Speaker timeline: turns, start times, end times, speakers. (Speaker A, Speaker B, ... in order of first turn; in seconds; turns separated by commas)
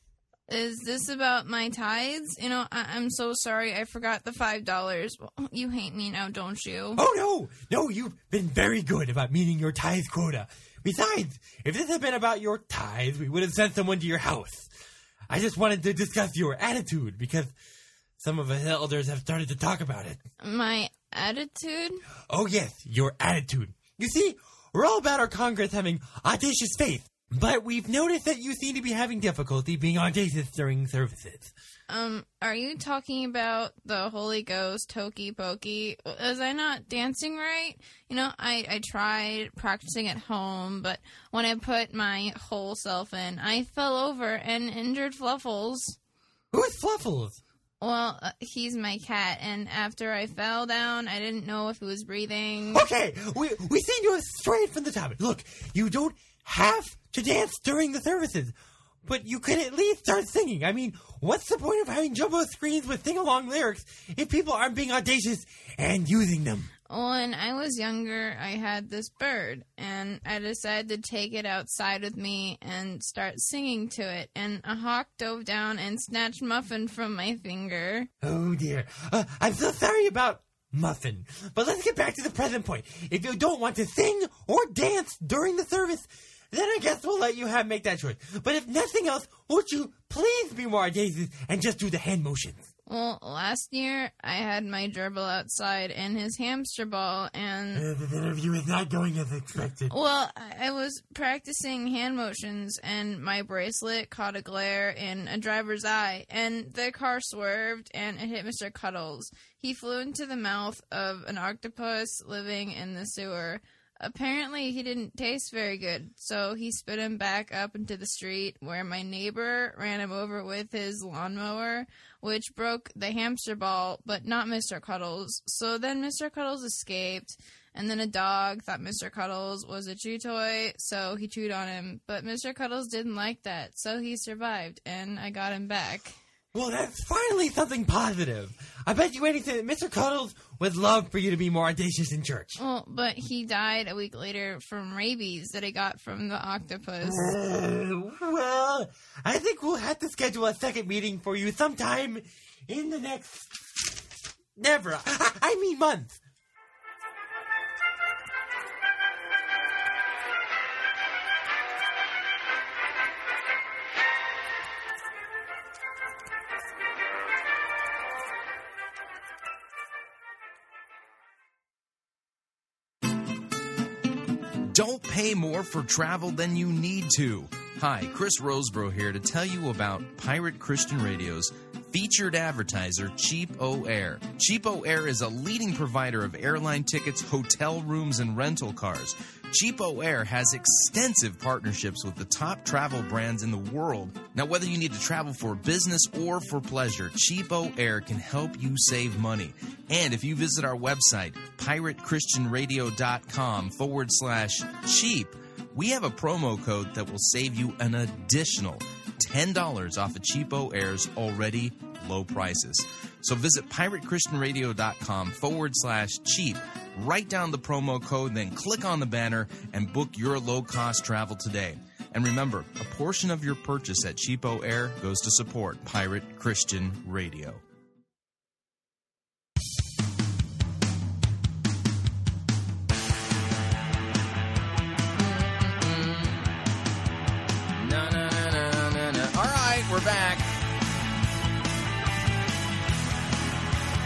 Speaker A: 0.5-7.0, Speaker B: 7.0-14.7, Speaker B: 15.3-17.5, Speaker B: 18.2-20.2, Speaker A: 20.4-22.0, Speaker B: 22.2-31.5, Speaker A: 31.9-46.0, Speaker B: 46.5-47.4, Speaker A: 47.8-52.8, Speaker B: 52.7-66.7, Speaker A: 66.9-78.1, Speaker B: 78.2-92.7, Speaker A: 92.9-97.8, Speaker B: 97.8-99.9, Speaker A: 99.9-136.2, Speaker B: 136.5-142.6, Speaker A: 142.6-147.3, Speaker B: 147.0-153.5, Speaker B: 154.6-156.2, Speaker C: 174.7-227.6, Speaker C: 235.1-236.5, Speaker C: 237.8-240.5